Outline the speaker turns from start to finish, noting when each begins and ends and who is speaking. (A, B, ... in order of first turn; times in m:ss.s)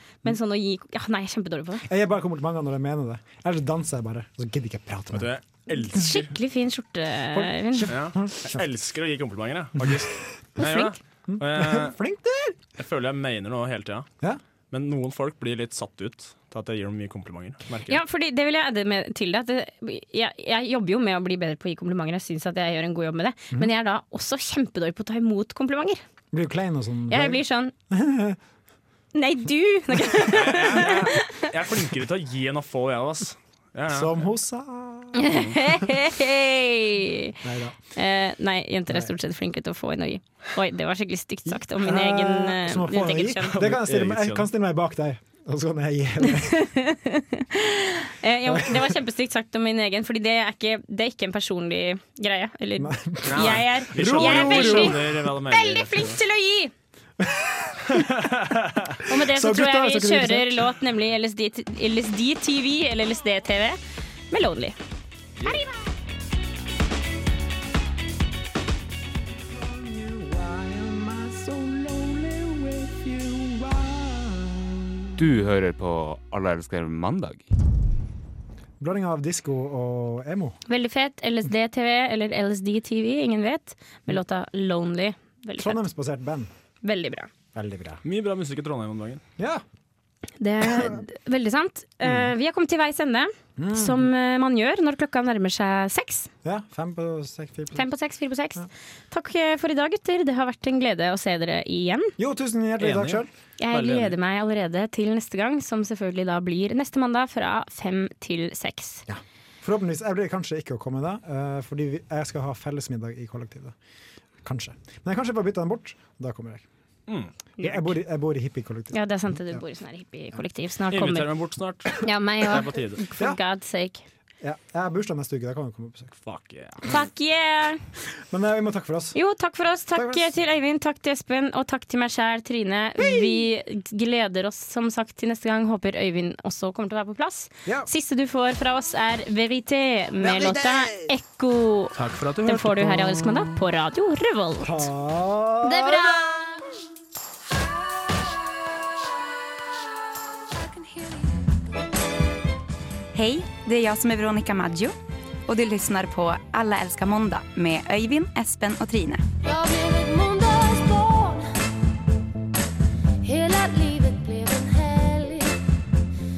0:00.2-0:01.9 A
0:01.8-0:05.3 B
0:05.1-0:05.4 C
0:05.7-0:07.9 A
0:07.3-0:08.6 B
0:07.9-0:12.0 C
0:10.6-0:11.0 A
0:11.3-0:12.6 B
0:12.8-0:14.1 C
0:14.7-0:18.0 C
0:17.9-0:26.0 A
0:26.3-0:28.4 B
0:27.1-0:27.7 A
0:29.1-0:31.5 A
0:30.2-0:34.1 C
0:33.9-0:35.8 B
0:35.1-0:37.4 A
0:37.4-0:37.8 B
0:38.0-0:43.6 A
0:41.5-0:46.6 B
0:43.5-0:44.5 C
0:46.2-0:56.7 A
0:48.5-0:48.9 B
0:52.8-0:55.1 B
0:53.3-0:56.2 C
0:57.2-0:58.1 B
0:57.9-0:58.9 C
0:59.0-1:03.8 A
0:59.1-1:00.7 B
1:04.3-1:04.8 A
1:09.5-1:15.0 B
1:15.2-1:17.4 D
1:18.8-1:20.6 B
1:20.7-1:25.8 A
1:25.6-1:26.5 B
1:26.8-1:27.3 A
1:27.5-1:28.0 B
1:28.0-1:29.2 C
1:29.4-1:29.6 B
1:30.4-1:36.3 A
1:30.7-1:31.0 B
1:32.0-1:32.3 B
1:33.6-1:34.1 B
1:36.4-1:37.9 B
1:37.7-1:42.1 A
1:42.2-1:43.3 B
1:42.8-1:44.1 C
1:43.6-1:49.0 A
1:49.1-1:53.7 B
1:54.4-1:56.6 B
1:57.6-1:57.9 A
1:57.6-1:59.6 B
1:58.9-2:01.3 A
2:00.9-2:03.0 C
2:02.0-2:04.0 A
2:04.4-2:06.1 B
2:06.2-2:06.8 C
2:06.8-2:07.8 A
2:08.3-2:09.2 B
2:09.1-2:24.8 A
2:09.9-2:10.3 B
2:13.0-2:13.4 B
2:20.2-2:21.1 B
2:21.9-2:23.4 C
2:22.7-2:23.2 B
2:24.6-2:26.4 B
2:25.6-2:26.4 A
2:30.7-2:31.3 E
2:33.1-2:34.9 F
2:35.5-2:39.2 F
2:39.4-2:41.4 E
2:43.2-2:45.5 E